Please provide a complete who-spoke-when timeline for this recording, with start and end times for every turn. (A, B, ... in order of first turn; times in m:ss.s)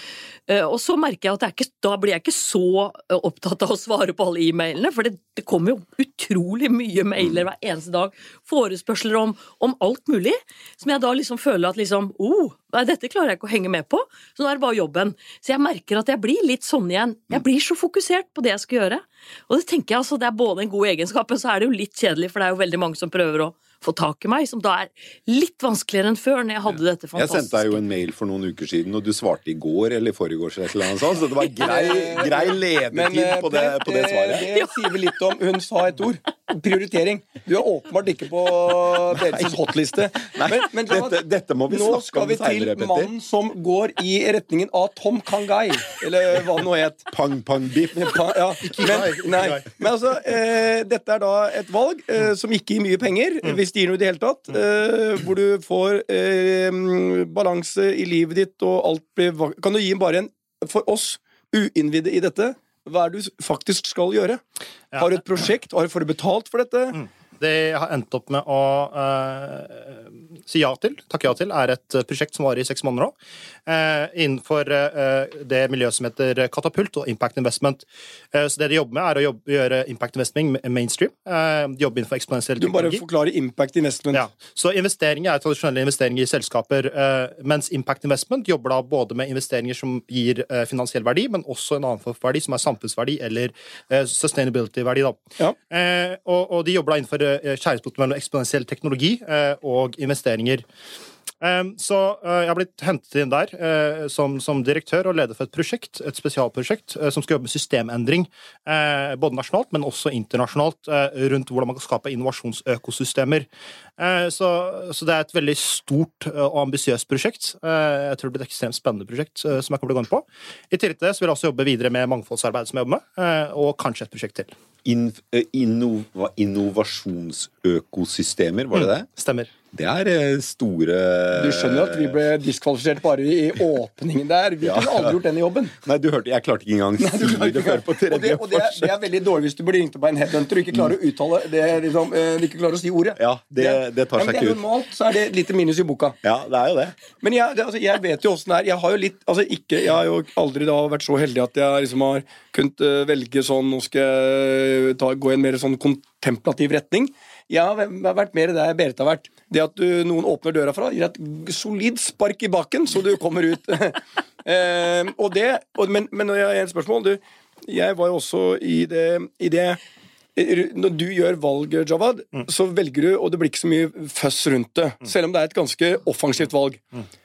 0:00.5-0:27.8 A
0:27.2-0:34.5 B
0:31.6-0:47.1 C
0:39.1-0:39.6 B
0:40.2-0:43.1 B
0:47.1-0:48.2 B
0:48.0-1:04.4 C
0:48.7-0:49.6 D
1:05.0-1:07.0 C
1:07.0-1:13.1 D
1:13.7-1:23.0 D
1:22.6-1:24.2 C
1:24.1-1:40.6 D
1:41.4-1:53.5 D
1:54.0-2:04.5 D
2:04.8-2:09.1 B
2:08.7-2:09.5 D
2:09.7-2:12.1 B
2:11.3-2:15.7 C
2:14.6-2:15.2 B
2:15.8-2:18.9 B
2:17.0-2:26.2 C
2:23.2-2:24.6 B
2:26.2-2:27.0 B
2:27.2-2:49.8 C
2:50.4-2:56.8 C